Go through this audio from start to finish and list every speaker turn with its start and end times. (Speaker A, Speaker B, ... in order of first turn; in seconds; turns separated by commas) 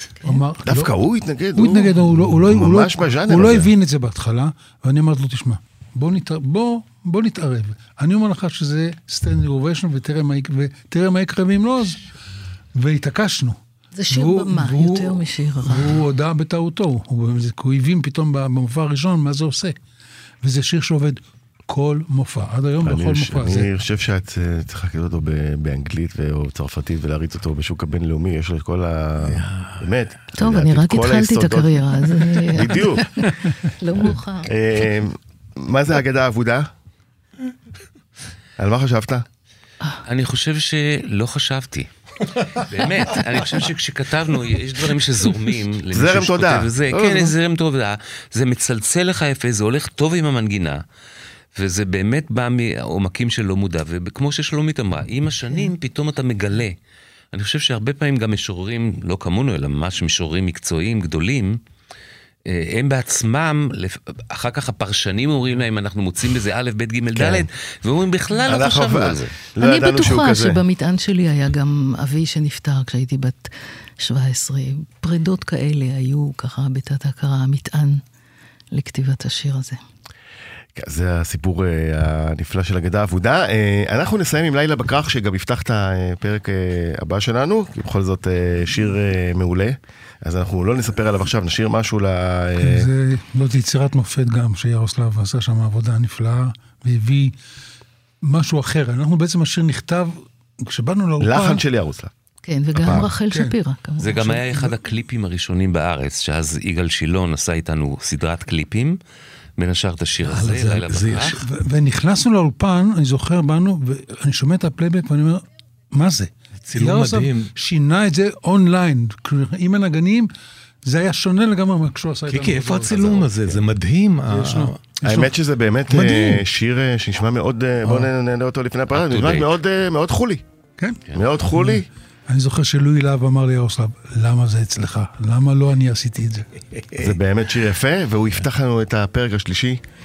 Speaker A: 0.2-0.9, Speaker B: 0.7-3.7, Speaker A: 1.6-12.0, Speaker A: 12.8-13.6, Speaker C: 13.9-15.9, Speaker A: 14.1-19.8, Speaker A: 20.4-23.7, Speaker B: 22.8-33.3, Speaker D: 29.3-29.9, Speaker C: 30.4-34.5, Speaker B: 34.0-36.7, Speaker B: 38.6-39.3, Speaker E: 40.1-41.9, Speaker E: 42.6-50.8, Speaker B: 45.9-47.3, Speaker E: 51.6-56.8, Speaker E: 57.3-61.6, Speaker E: 62.5-69.3, Speaker B: 67.1-67.5, Speaker B: 68.5-70.6, Speaker C: 69.6-73.5, Speaker C: 74.0-78.0, Speaker C: 78.7-79.8, Speaker B: 80.8-92.9, Speaker A: 92.6-97.3, Speaker A: 98.2-101.6, Speaker B: 101.2-102.1, Speaker C: 102.4-104.6, Speaker B: 102.8-103.1, Speaker A: 102.9-103.5, Speaker E: 104.0-109.0, Speaker E: 109.6-111.4, Speaker D: 110.2-111.4, Speaker A: 111.3-120.3, Speaker D: 116.7-117.5, Speaker A: 120.8-123.3, Speaker D: 122.3-124.8, Speaker A: 124.3-125.3, Speaker B: 125.0-130.4, Speaker D: 125.9-126.4, Speaker D: 127.8-128.1, Speaker E: 128.9-129.5, Speaker B: 131.1-131.9, Speaker A: 131.5-136.5, Speaker B: 137.0-139.8